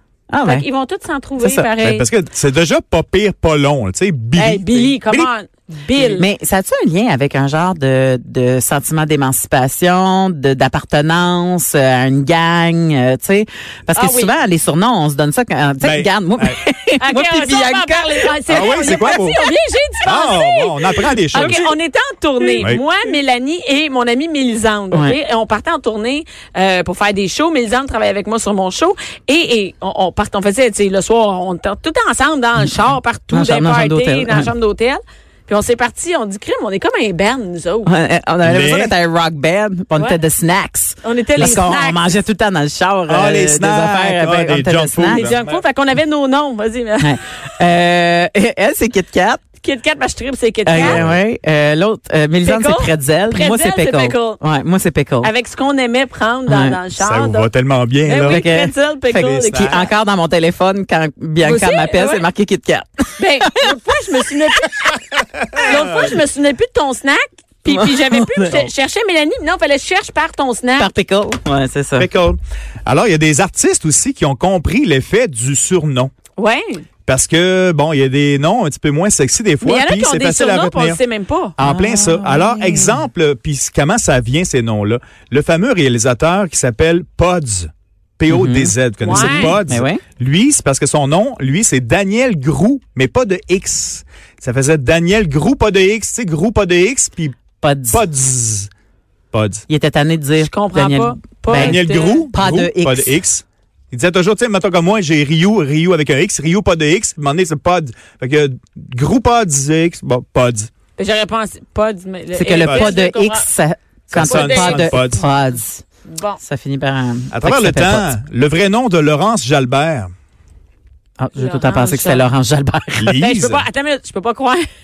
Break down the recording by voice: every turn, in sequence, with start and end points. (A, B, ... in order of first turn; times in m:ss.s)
0:00.3-0:00.6 A
0:00.4-0:02.1 B
0:01.4-0:01.7 A
0:01.8-0:05.3 C
0:04.4-0:06.3 B
0:06.2-0:19.5 A
0:13.9-0:14.3 B
0:15.8-0:16.6 C
0:17.0-0:37.9 B
0:18.5-0:19.4 C
0:20.0-0:21.6 C
0:21.3-0:21.7 A
0:24.9-0:25.2 A
0:33.3-0:34.5 A
0:37.8-0:45.3 A
0:38.4-0:39.0 C
0:40.0-0:40.2 B
0:41.0-0:42.1 B
0:41.4-0:41.6 C
0:43.1-0:45.6 C
0:45.0-0:47.1 B
0:47.0-0:49.4 A
0:49.6-0:51.0 B
0:50.6-0:55.3 A
0:50.7-0:51.2 C
0:52.4-0:54.4 B
0:55.2-0:57.5 B
0:56.5-0:56.8 A
0:57.0-0:58.5 C
0:58.0-0:59.8 B
0:58.2-1:03.7 A
0:59.2-0:59.9 C
1:01.4-1:02.2 B
1:03.2-1:05.0 B
1:05.5-1:06.1 C
1:05.6-1:10.9 B
1:07.7-1:08.5 A
1:10.8-1:12.1 A
1:12.0-1:16.1 C
1:16.4-1:16.8 B
1:17.0-1:21.0 C
1:19.6-1:21.5 B
1:21.6-1:37.4 C
1:21.6-1:23.0 A
1:28.3-1:30.0 A
1:29.0-1:29.6 B
1:37.6-1:38.0 A
1:37.9-1:38.7 C
1:39.3-1:39.7 C
1:39.7-1:41.8 A
1:40.4-1:42.3 B
1:41.5-1:50.7 C
1:42.3-1:43.2 A
1:51.0-1:53.5 B
1:52.3-1:55.8 A
1:52.6-1:53.0 C
1:54.1-1:55.0 B
1:54.1-1:55.2 C
1:56.1-1:56.4 B
1:56.4-1:58.2 A
1:57.3-2:00.1 C
2:01.2-2:03.2 A
2:01.3-2:02.3 B
2:03.0-2:03.6 C
2:03.2-2:04.6 B